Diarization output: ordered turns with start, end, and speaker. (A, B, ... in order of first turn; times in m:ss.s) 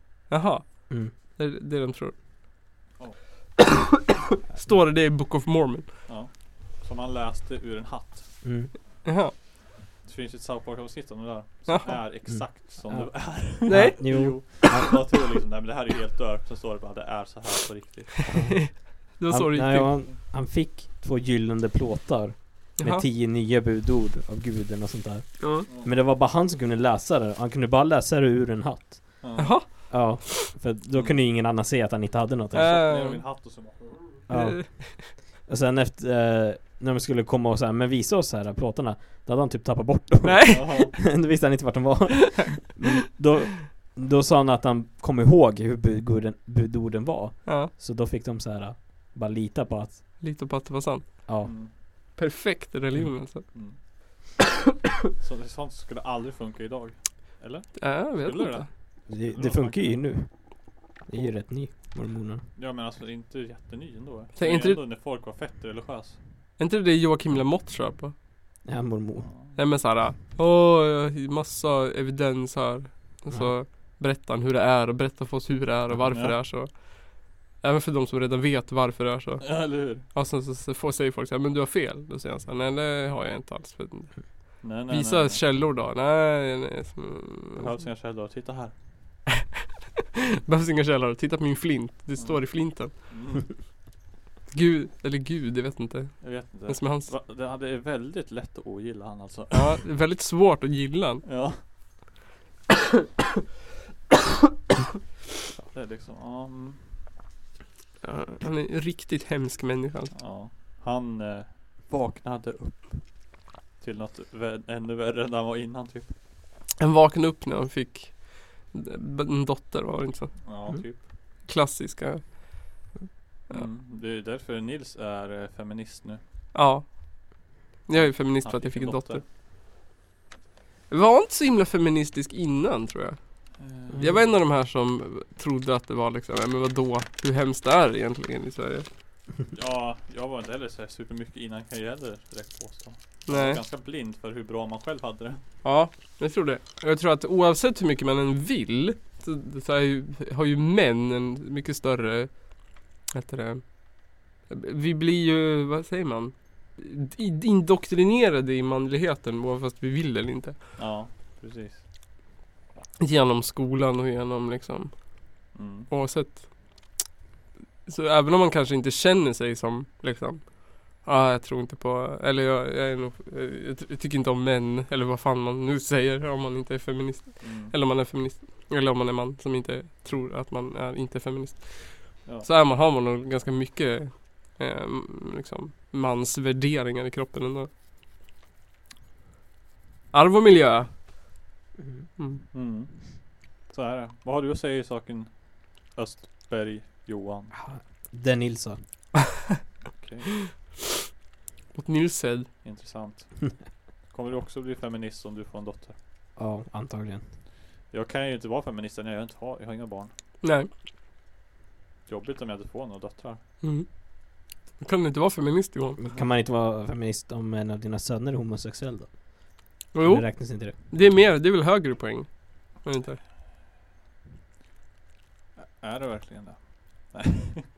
0:00.3-0:02.1 A
0:04.5-0:05.8 A
0:06.1-0:08.4 B
0:08.4-0:08.7 C
0:09.0-0:09.3 A
0:10.0-0:18.3 B
0:11.7-0:12.0 A
0:12.3-0:15.0 C
0:13.7-0:14.4 A
0:18.3-0:33.0 C
0:18.3-0:20.0 A
0:22.8-0:23.0 A
0:25.4-0:25.7 A
0:25.7-0:25.9 B
0:29.2-0:29.9 B
0:29.4-0:30.5 A
0:30.9-0:31.2 B
0:32.5-0:33.2 A
0:32.6-0:34.2 B
0:34.3-0:50.1 C
0:34.3-0:35.0 A
0:40.2-0:40.9 A
0:40.5-0:41.0 B
0:47.4-0:47.7 A
0:50.2-0:51.6 A
0:51.3-0:51.5 C
0:51.4-0:51.7 B
0:52.1-0:53.5 A
0:53.5-0:53.8 B
0:55.2-1:00.3 B
0:57.8-0:58.6 A
0:59.1-1:02.4 C
1:02.6-1:06.2 B
1:04.4-1:04.8 A
1:06.6-1:08.1 A
1:08.6-1:09.3 C
1:09.2-1:09.6 B
1:09.6-1:27.7 A
1:13.3-1:13.6 C
1:16.1-1:16.4 B
1:19.4-1:20.0 B
1:24.6-1:25.4 B
1:27.6-1:28.7 B
1:30.4-1:32.9 A
1:32.2-1:33.5 B
1:34.5-1:37.1 A
1:36.2-1:39.8 B
1:39.5-1:41.2 A
1:41.2-1:41.6 B
1:45.6-1:47.0 B
1:48.0-1:50.1 A
1:50.1-1:56.1 B
1:56.8-2:00.3 A
2:00.4-2:01.1 B
2:01.4-2:02.3 A
2:03.5-2:06.2 B
2:06.5-2:07.3 A
2:07.8-2:09.2 A
2:07.9-2:09.2 B
2:10.9-2:13.2 A
2:13.6-2:14.2 B
2:13.9-2:14.2 C
2:14.0-2:18.8 A
2:19.5-2:25.4 B
2:23.3-2:23.6 A
2:25.6-2:33.8 A
2:34.5-2:40.6 A
2:40.8-2:41.8 B
2:43.0-2:45.0 A
2:45.5-2:45.9 B
2:45.9-2:46.5 A
2:47.8-3:07.7 A
2:57.4-2:57.7 B
3:10.1-3:10.9 A
3:11.8-3:12.0 C
3:12.2-3:12.4 A
3:12.5-3:17.5 B
3:17.5-3:18.8 C
3:19.9-3:20.5 B
3:21.7-3:22.5 A
3:22.6-3:23.6 B
3:24.1-3:26.0 B
3:26.4-3:27.2 C
3:27.9-3:30.1 B
3:30.4-3:30.7 A
3:32.1-3:33.4 B
3:33.6-3:36.0 A
3:36.0-3:40.7 C
3:39.9-3:43.2 A
3:45.6-3:47.6 B